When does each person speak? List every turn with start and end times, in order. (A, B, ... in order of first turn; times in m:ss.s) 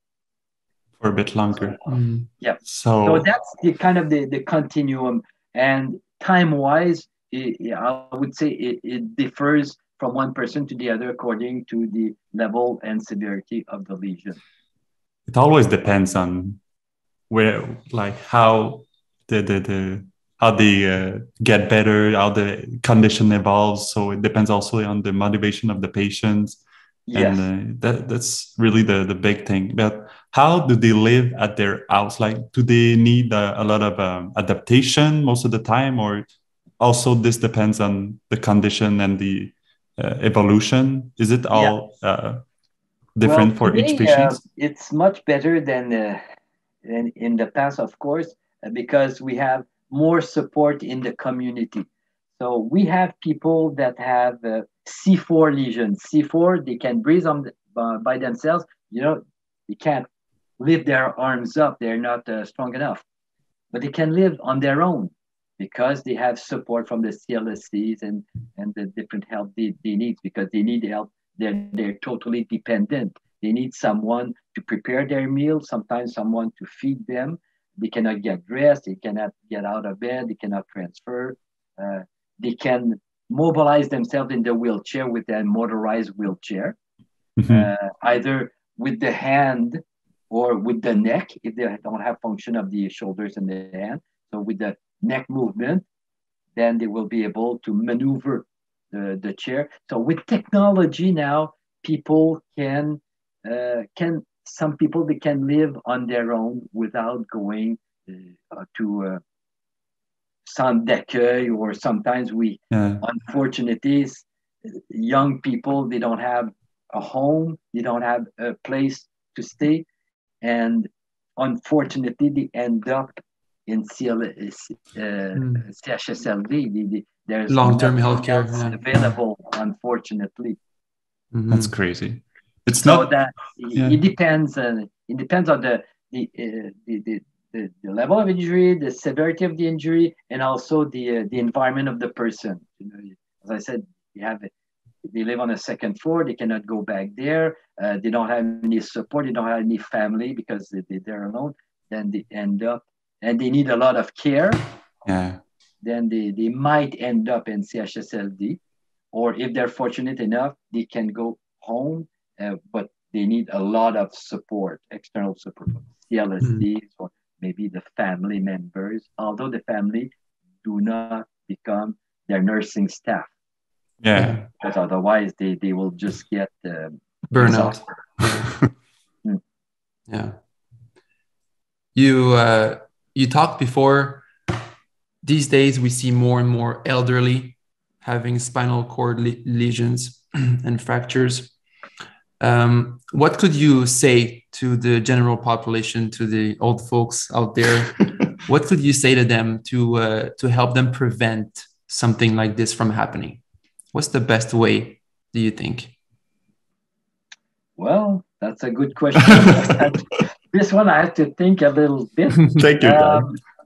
0:01.0-0:01.8 A
0:01.9-0:02.3 B
0:02.4-0:14.4 C
0:02.6-0:03.3 A
0:15.3-0:16.6 A
0:17.3-0:26.6 A
0:27.1-0:27.4 C
0:27.1-0:42.4 A
0:43.2-0:44.4 A
0:43.2-0:46.2 C
0:46.8-1:00.1 C
1:00.6-1:03.0 C
1:03.7-1:26.8 C
1:27.4-1:27.7 A
1:27.5-1:35.8 C
1:36.6-1:49.2 C
1:50.4-1:59.8 C
1:52.7-1:53.0 A
2:00.4-2:10.6 C
2:05.4-2:05.6 B
2:07.5-2:09.0 B
2:11.3-2:11.7 B
2:11.5-2:13.1 A
2:12.8-2:24.5 C
2:25.1-2:34.6 C
2:35.0-2:35.4 A
2:35.8-2:38.6 C
2:39.1-2:50.1 C
2:50.6-2:53.3 C
2:54.0-2:54.4 A
2:54.1-2:54.4 B
2:54.6-2:57.9 C
2:57.3-2:58.5 B
2:58.2-2:58.7 A
3:00.1-3:00.4 B
3:01.9-3:04.3 B
3:05.2-3:11.5 B
3:12.4-3:23.4 B
3:23.9-3:25.9 B
3:27.8-3:33.4 C
3:32.5-3:33.3 A